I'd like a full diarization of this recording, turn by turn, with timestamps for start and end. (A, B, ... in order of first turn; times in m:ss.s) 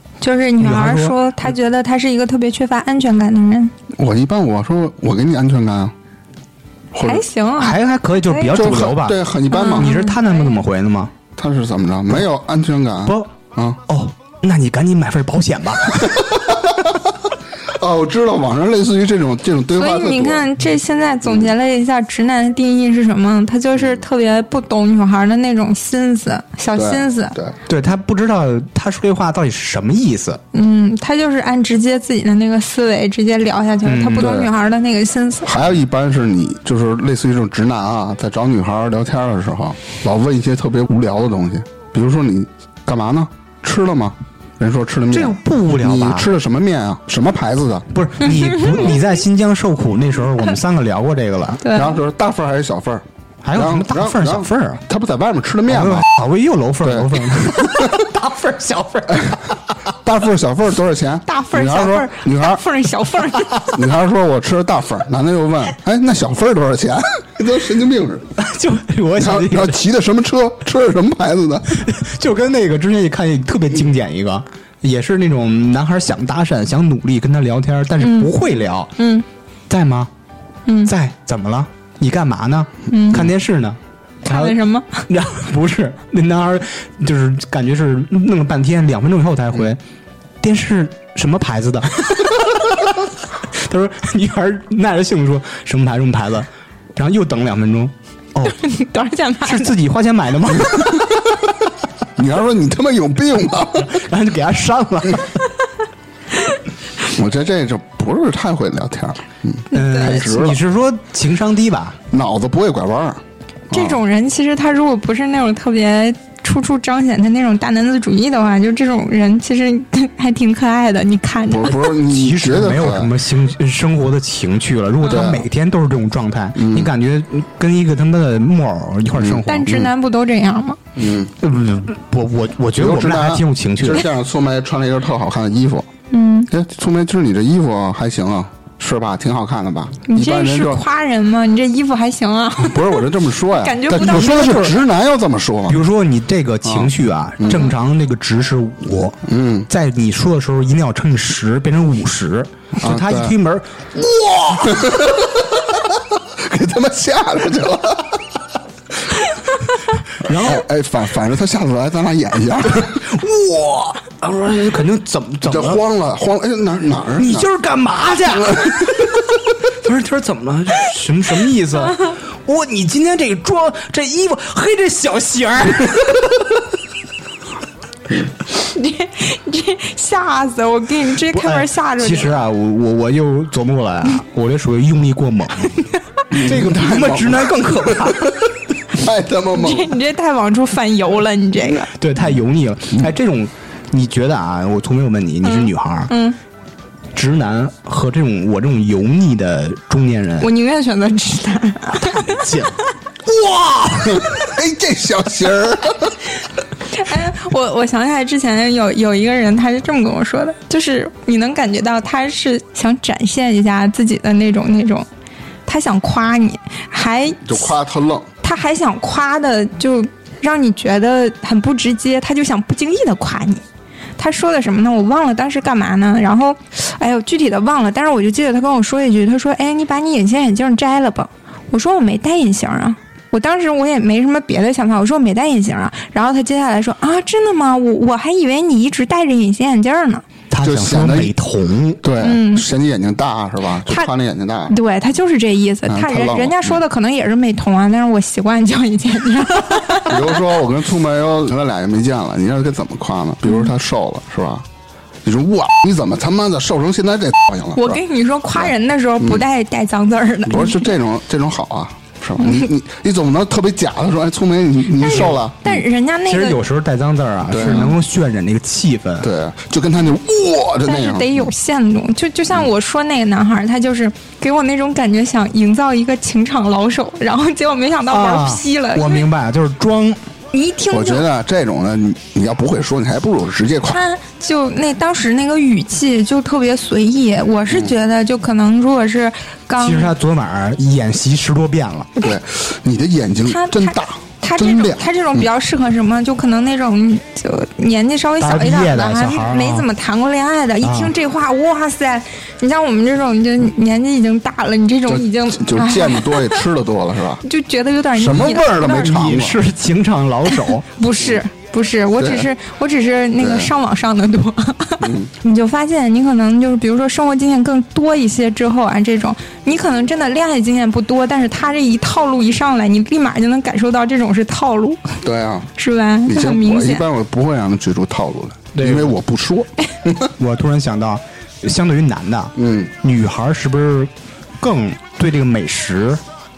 0:00.2-0:03.7 A
0:00.6-0:01.1 B
0:03.9-0:05.9 C
0:06.9-0:07.2 C
0:07.0-0:08.6 A
0:07.6-0:11.1 B
0:08.5-0:09.9 C
0:09.5-0:10.6 A
0:11.4-0:13.8 C
0:13.9-0:16.3 B
0:16.0-0:16.8 C
0:17.7-0:20.5 C
0:19.7-0:27.4 A
0:21.2-0:21.5 C
0:26.7-0:27.6 C
0:27.7-0:30.4 B
0:30.5-0:35.5 A
0:33.8-0:34.5 B
0:35.4-0:47.9 C
0:45.1-0:46.3 B
0:47.9-0:51.6 B
0:48.7-0:49.0 C
0:51.6-0:51.9 A
0:51.7-0:56.0 C
0:53.4-0:54.8 B
0:55.7-0:59.8 B
0:56.8-0:58.0 C
1:00.0-1:02.6 C
1:01.3-1:03.6 A
1:03.7-1:08.3 C
1:08.4-1:09.8 B
1:09.2-1:11.8 C
1:11.7-1:18.9 B
1:18.0-1:18.3 A
1:19.0-1:19.2 A
1:19.7-1:20.1 B
1:20.8-1:29.8 B
1:22.9-1:23.3 A
1:24.2-1:25.0 A
1:30.4-1:38.6 B
1:38.6-1:39.7 A
1:39.4-1:41.2 B
1:42.2-1:44.0 C
1:43.9-1:45.4 B
1:47.0-1:50.6 C
1:49.7-1:50.2 A
1:49.7-1:52.0 B
1:52.1-1:54.0 C
1:53.7-2:01.9 A
2:01.5-2:03.1 C
2:02.0-2:09.9 B
2:05.0-2:05.5 C
2:06.6-2:06.9 C
2:09.2-2:09.4 C
2:09.4-2:10.8 A
2:10.9-2:11.3 C
2:11.4-2:14.0 B
2:12.8-2:15.9 C
2:16.1-2:16.5 A
2:16.5-2:20.8 C
2:20.1-2:24.6 A
2:22.6-2:25.8 C
2:23.9-2:24.8 B
2:25.7-2:34.9 B
2:26.6-2:27.7 C
2:29.2-2:29.7 C
2:32.8-2:33.3 C
2:34.6-2:38.2 C
2:40.2-2:40.7 B
2:40.3-2:43.0 C
2:42.7-2:45.8 B
2:45.4-2:47.5 C
2:47.2-2:49.2 B
2:48.3-2:49.0 C
2:49.8-2:56.4 B
2:58.6-3:02.4 A
3:01.3-3:05.8 B
3:06.3-3:09.9 C
3:06.3-3:08.5 B
3:09.5-3:11.9 A
3:11.9-3:16.1 B
3:15.4-3:16.4 A
3:17.1-3:20.5 B
3:20.4-3:22.4 A
3:21.9-3:24.2 B
3:24.0-3:26.2 C
3:26.9-3:35.1 A
3:35.6-3:37.7 A
3:37.4-3:38.3 C
3:38.4-3:43.6 A
3:44.2-4:00.2 A
4:00.5-4:02.0 B
4:00.6-4:01.3 C
4:02.0-4:04.8 C
4:02.2-4:02.7 A
4:04.7-4:10.4 A
4:05.9-4:06.8 C
4:10.1-4:14.6 C
4:15.2-4:18.0 C
4:17.8-4:20.9 A
4:18.6-4:19.4 C
4:20.4-4:25.8 C
4:25.0-4:26.6 A
4:26.2-4:29.3 B
4:27.5-4:28.0 C
4:29.2-4:31.5 C
4:30.8-4:39.2 A
4:38.1-4:40.2 B
4:40.5-4:41.2 A
4:40.9-4:44.0 C
4:43.8-4:50.1 A
4:49.8-4:52.1 B
4:52.2-4:55.4 C
4:53.4-5:06.6 A
4:58.4-4:59.8 B
5:00.8-5:01.1 B
5:05.1-5:07.4 C
5:07.4-5:09.2 A
5:08.1-5:09.6 C
5:08.2-5:10.8 B
5:10.5-5:25.2 A
5:12.2-5:12.5 C
5:13.4-5:13.7 C
5:15.0-5:15.3 C
5:25.2-5:25.7 C
5:25.8-5:27.0 A
5:26.2-5:30.3 C
5:28.8-5:29.1 B
5:30.4-5:36.2 B
5:32.6-5:32.9 C